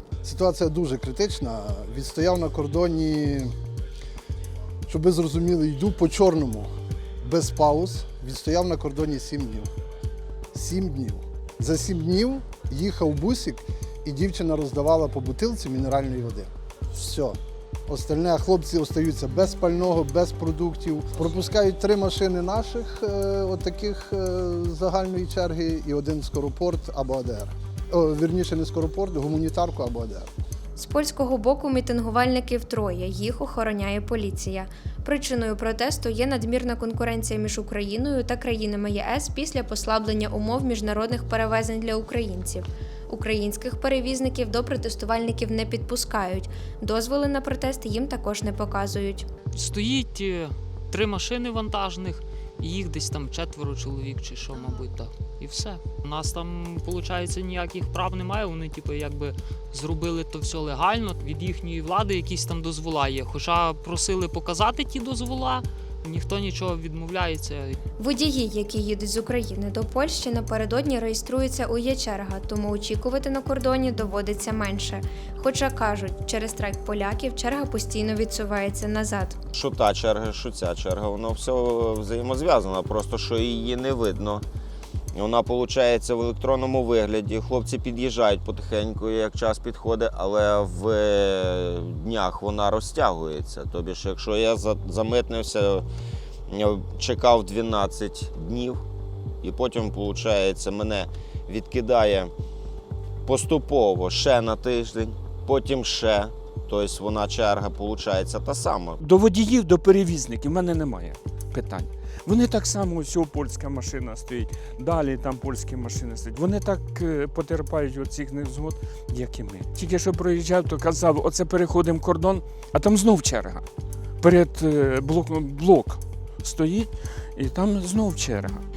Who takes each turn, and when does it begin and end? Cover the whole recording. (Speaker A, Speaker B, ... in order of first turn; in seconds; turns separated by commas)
Speaker A: 0.2-3.5, Speaker A: 4.9-6.7, Speaker A: 7.2-9.7, Speaker A: 10.5-30.3, Speaker B: 30.8-49.3, Speaker C: 49.5-67.8, Speaker B: 68.0-79.4, Speaker D: 79.5-84.4, Speaker D: 85.1-95.8, Speaker D: 96.5-98.8, Speaker D: 99.4-102.3, Speaker D: 103.2-109.0, Speaker E: 109.0-123.6, Speaker E: 124.2-128.6